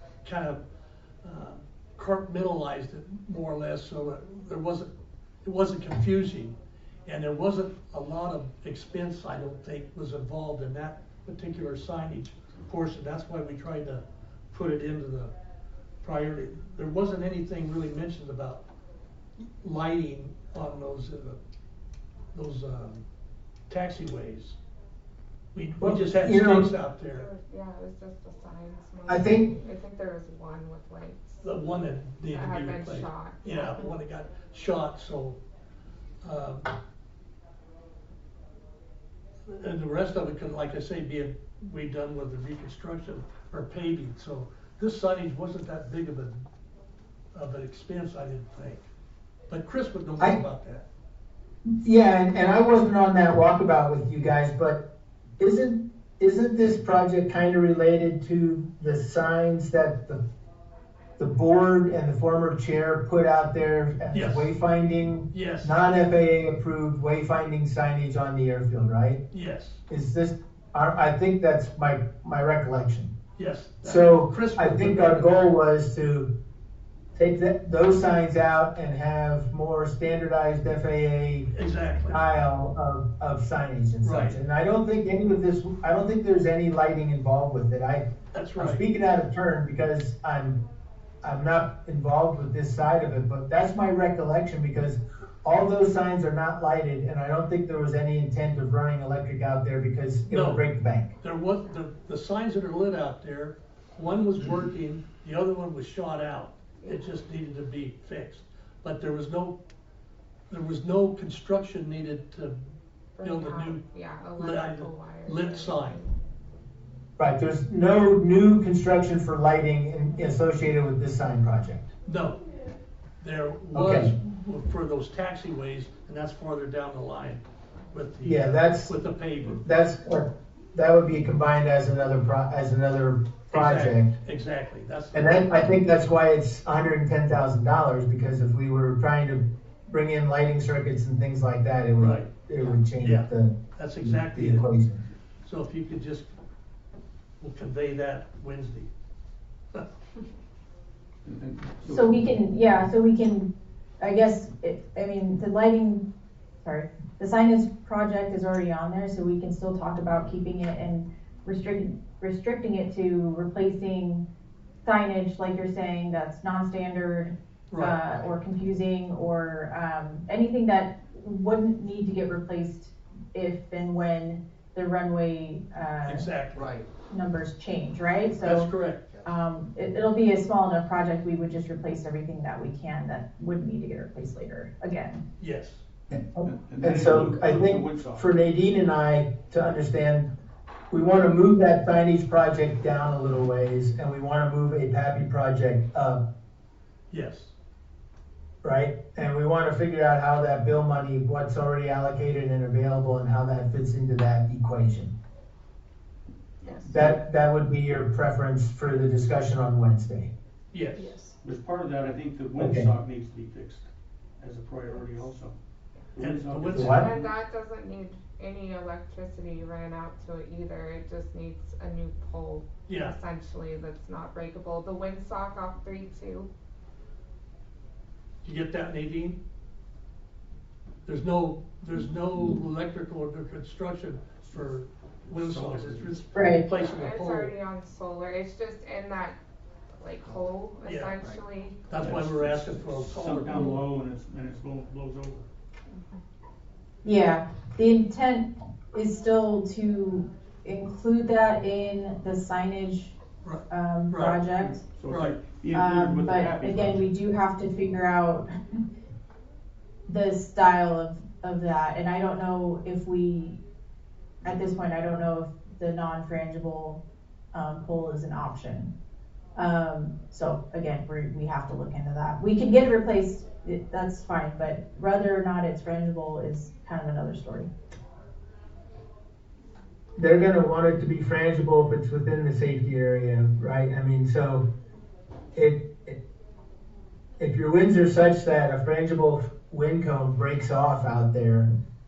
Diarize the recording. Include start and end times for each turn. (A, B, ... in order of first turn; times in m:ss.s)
0:00.2-0:00.6 A
0:01.2-0:04.9 A
0:05.4-0:06.5 A
0:07.0-0:15.3 A
0:16.0-0:18.6 A
0:19.6-0:21.4 A
0:22.3-0:23.0 A
0:23.7-0:24.6 A
0:25.5-0:27.3 A
0:25.8-0:26.8 B
0:27.1-0:31.5 C
0:29.1-0:29.5 B
0:31.4-0:35.4 A
0:32.3-0:33.9 C
0:36.2-0:36.7 A
0:39.4-0:46.4 A
0:47.3-0:48.8 A
0:49.5-0:50.9 A
0:51.8-0:54.9 B
0:55.4-1:00.2 B
1:01.2-1:09.2 B
1:04.1-1:04.5 A
1:05.3-1:05.8 A
1:09.3-1:09.8 A
1:09.9-1:13.1 B
1:13.4-1:15.4 A
1:13.8-1:16.3 B
1:17.1-1:21.5 B
1:21.5-1:22.2 A
1:22.1-1:30.6 B
1:24.0-1:24.4 A
1:28.3-1:28.8 A
1:31.2-1:41.1 B
1:40.3-1:40.6 A
1:41.2-1:49.6 A
1:50.5-1:52.6 A
1:53.2-1:56.1 C
1:53.2-1:53.8 A
1:54.4-1:56.0 A
1:57.2-2:01.9 B
2:02.0-2:02.4 A
2:03.2-2:09.6 A
2:03.7-2:04.1 B
2:08.2-2:09.0 B
2:09.6-2:14.1 B
2:13.5-2:15.8 A
2:15.1-2:25.0 B
2:22.0-2:24.7 A
2:25.4-2:26.3 A
2:27.4-2:28.9 A
2:31.2-2:32.3 D
2:31.9-2:36.0 E
2:36.6-2:44.2 E
2:44.8-2:56.4 E
2:47.7-2:48.3 A
2:56.0-2:56.8 A
2:57.1-3:05.2 E
2:58.4-2:59.0 A
3:05.4-3:05.8 A
3:06.1-3:08.3 D
3:06.4-3:10.3 B
3:10.9-3:16.2 B
3:17.1-3:17.5 A
3:18.6-3:25.1 B
3:26.9-3:30.3 B
3:30.7-3:31.2 A
3:31.4-3:33.9 D
3:32.6-3:32.9 B
3:34.4-3:35.6 D
3:36.1-3:37.3 D
3:36.2-3:37.1 A
3:36.7-3:37.1 B
3:36.9-3:46.5 C
3:42.9-3:43.1 A
3:48.4-3:49.4 A
3:51.0-3:57.5 A
3:55.3-3:56.3 D
3:56.3-3:56.6 E
3:56.7-3:59.4 C
4:00.0-4:01.8 C
4:00.8-4:01.2 A
4:01.9-4:03.8 A
4:01.9-4:05.5 D
4:07.0-4:14.8 E
4:13.4-4:14.4 A
4:14.7-4:17.1 D
4:15.1-4:15.4 A
4:15.7-4:18.5 E
4:20.1-4:23.6 E
4:24.4-4:28.9 E
4:29.5-4:37.7 E
4:40.2-4:44.7 B
4:45.5-4:46.2 B
4:47.4-4:51.7 B